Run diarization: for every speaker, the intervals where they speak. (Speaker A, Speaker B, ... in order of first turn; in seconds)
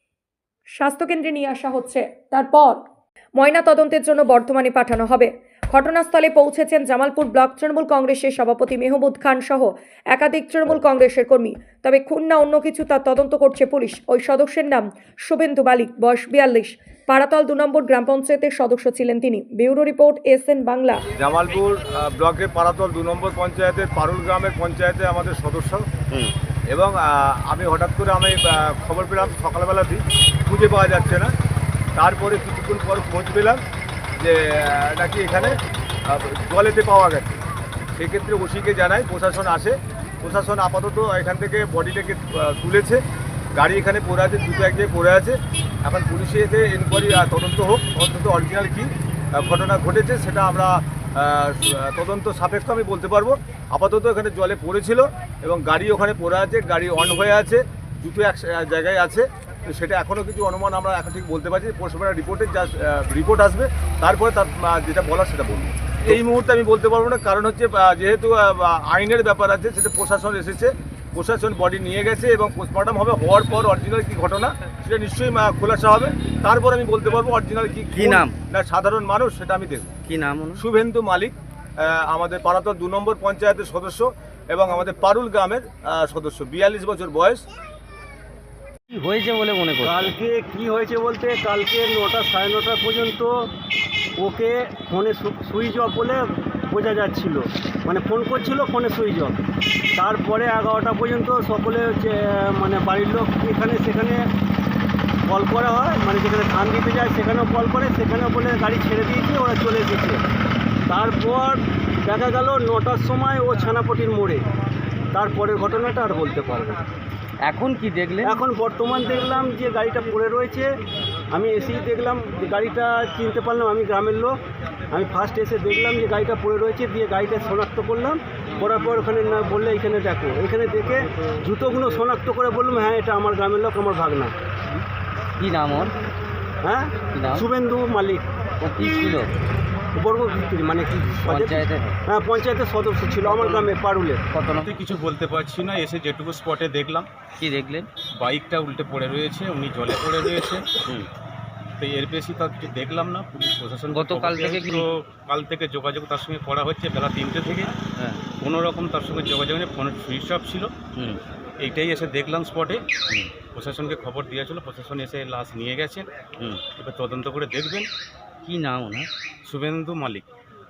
Speaker A: 0.8-2.8, 3.4-21.0
Speaker B: 21.2-25.8, 26.7-31.3, 32.0-33.6, 34.2-35.5, 36.1-37.4, 38.0-43.0, 43.6-79.9, 80.6-87.4
Speaker C: 77.9-78.4, 80.1-80.6, 88.9-90.1, 117.5-118.4, 135.4-135.9, 137.1-137.5, 138.6-139.3, 141.3-142.0, 143.3-143.7, 144.3-144.7, 147.4-147.9, 153.9-154.9, 158.0-158.2, 160.9-161.2, 168.4-169.1
Speaker D: 89.8-93.3, 94.2-99.4, 100.0-104.2, 105.3-110.2, 110.9-114.4, 115.1-116.8, 118.2-120.7, 121.3-124.3, 124.9-134.3, 136.6-138.3, 140.0-144.2
Speaker E: 144.6-147.1, 148.2-150.7, 151.8-157.8, 158.4-160.8, 161.6-162.8, 163.5-166.1, 166.8-167.9, 169.5-170.2